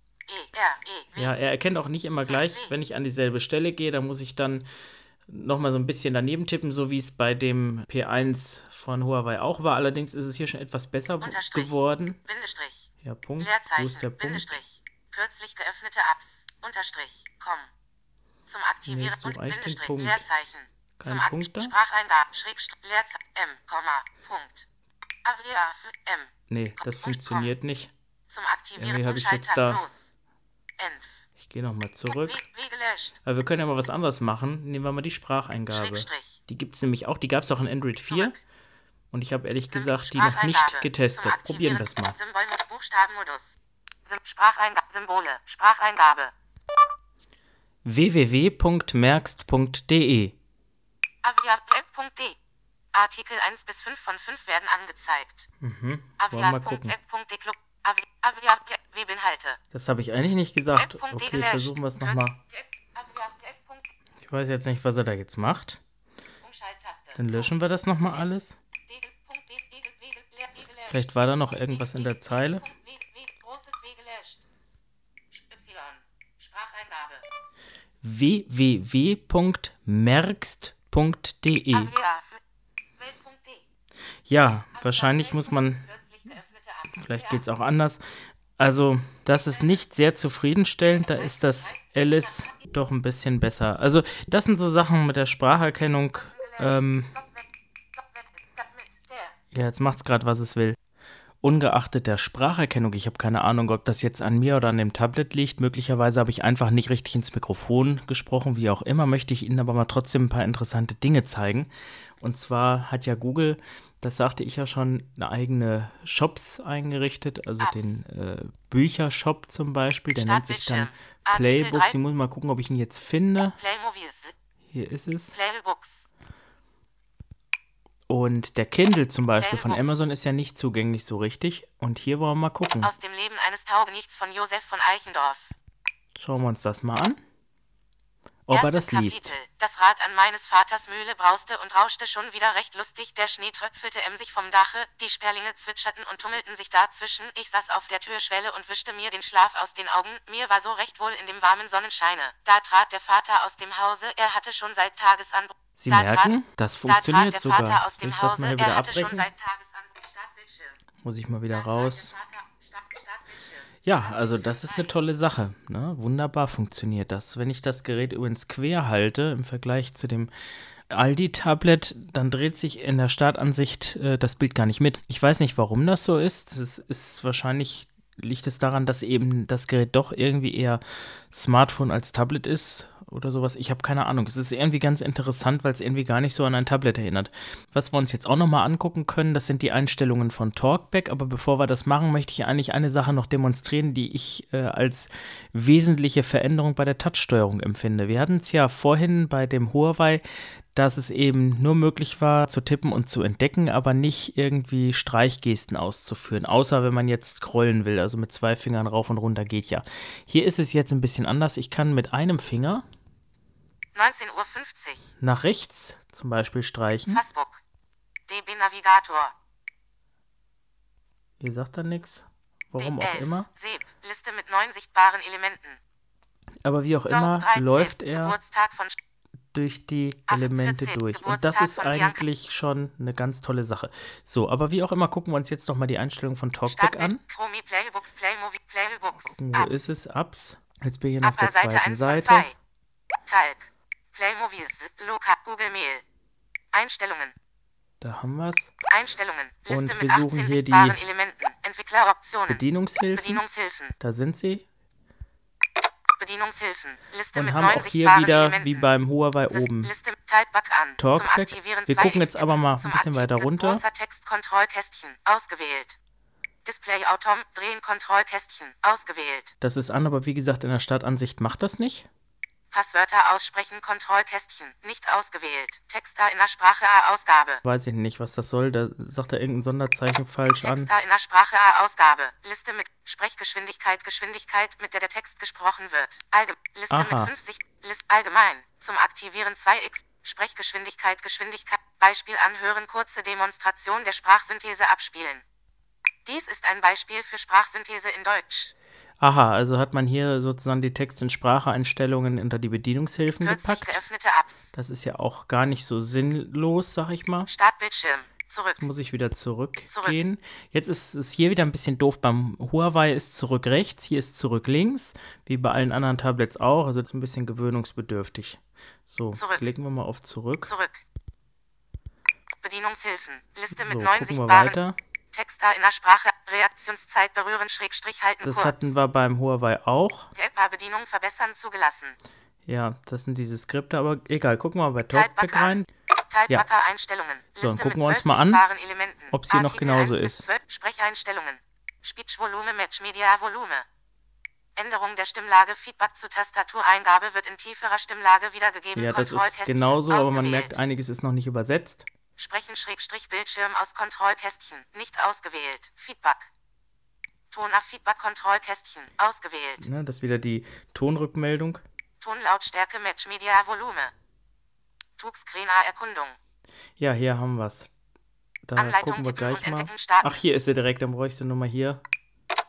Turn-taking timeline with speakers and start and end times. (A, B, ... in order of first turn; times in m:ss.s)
0:00.3-0:01.3 A
0:01.1-0:04.6 B
0:02.2-0:02.7 A
0:05.3-0:12.2 B
0:11.2-0:12.9 A
0:13.0-0:14.5 B
0:13.4-0:17.7 A
0:18.5-0:24.6 A
0:18.8-0:20.2 B
0:21.0-0:21.7 B
0:25.2-0:27.5 A
0:26.5-0:27.9 B
0:28.3-0:30.1 A
0:28.8-0:29.8 B
0:30.8-0:31.2 A
0:31.4-0:32.4 B
0:32.0-0:33.2 A
0:33.2-0:38.4 B
0:35.7-0:36.4 A
0:38.1-0:38.4 A
0:39.1-0:42.2 B
0:39.7-0:46.3 A
0:47.8-0:50.3 B
0:51.2-0:52.4 A
0:52.9-0:55.5 A
0:55.6-0:57.0 B
0:56.2-0:59.6 A
0:59.7-1:02.4 B
1:00.7-1:03.9 A
1:04.2-1:05.8 B
1:06.4-1:14.4 A
1:07.2-1:08.6 B
1:10.9-1:12.6 B
1:15.3-1:17.2 A
1:18.0-1:21.9 B
1:21.7-1:22.4 A
1:23.0-1:23.6 A
1:24.3-1:25.8 B
1:24.7-1:27.4 A
1:27.0-1:28.0 B
1:28.6-1:37.1 B
1:29.3-1:29.8 A
1:30.8-1:32.6 A
1:36.1-1:39.4 A
1:39.5-1:40.8 B
1:41.4-1:51.7 B
1:52.2-2:03.6 B
1:57.6-1:58.0 A
2:00.1-2:02.0 A
2:03.6-2:04.3 A
2:04.7-2:05.3 B
2:05.3-2:06.0 A
2:08.1-2:12.9 B
2:09.3-2:10.0 A
2:12.8-2:15.5 A
2:16.2-2:17.2 B
2:18.5-2:19.3 B
2:18.5-2:36.3 A
2:35.8-2:39.3 B
2:36.8-2:40.8 A
2:41.0-2:42.1 B
2:41.5-2:45.0 A
2:43.8-2:50.3 B
2:50.9-3:20.2 B
3:20.7-3:32.8 B
3:33.9-3:35.1 A
3:35.2-3:37.2 B
3:37.1-3:37.6 A
3:38.3-3:39.3 A
3:41.4-3:43.5 B
3:42.8-3:45.8 A
3:46.6-3:48.4 B
3:47.1-3:48.9 A
3:49.5-3:57.2 B
3:50.3-3:52.2 A
3:56.6-3:59.9 A
3:59.2-4:02.5 B
4:01.2-4:02.5 A
4:03.2-4:06.0 A
4:06.7-4:07.3 A
4:08.0-4:08.7 B
4:08.9-4:13.9 A
4:09.7-4:11.0 B
4:12.5-4:13.4 B
4:14.0-4:14.6 B
4:16.2-4:18.9 A
4:17.3-4:19.9 B
4:19.5-4:26.0 A
4:21.0-4:23.8 B
4:26.6-4:29.5 A
4:29.6-4:32.1 B
4:32.7-4:37.6 A
4:37.6-4:40.9 B
4:40.6-4:55.4 A
4:46.9-4:47.3 B
4:56.2-4:58.7 A
4:59.2-5:04.0 B
5:03.4-5:04.7 A
5:04.7-5:07.5 B
5:07.5-5:08.8 A
5:08.7-5:20.7 B
5:09.9-5:10.2 A
5:19.3-5:19.6 A
5:20.6-5:21.0 A
5:22.6-5:24.8 A
5:23.7-5:25.0 B
5:25.3-5:29.0 A
5:28.4-5:30.3 B
5:30.4-5:32.2 A
5:32.6-5:35.9 B
5:35.1-5:43.8 A
5:37.6-5:38.6 B
5:39.3-5:40.5 B
5:44.8-5:50.8 A
5:48.9-5:52.1 B
5:52.4-5:56.5 A
5:57.5-5:59.8 A
5:59.8-6:01.8 B
6:02.2-6:04.1 A
6:05.2-6:06.4 A
6:07.0-6:07.9 B
6:08.7-6:12.0 B
6:08.8-6:10.4 A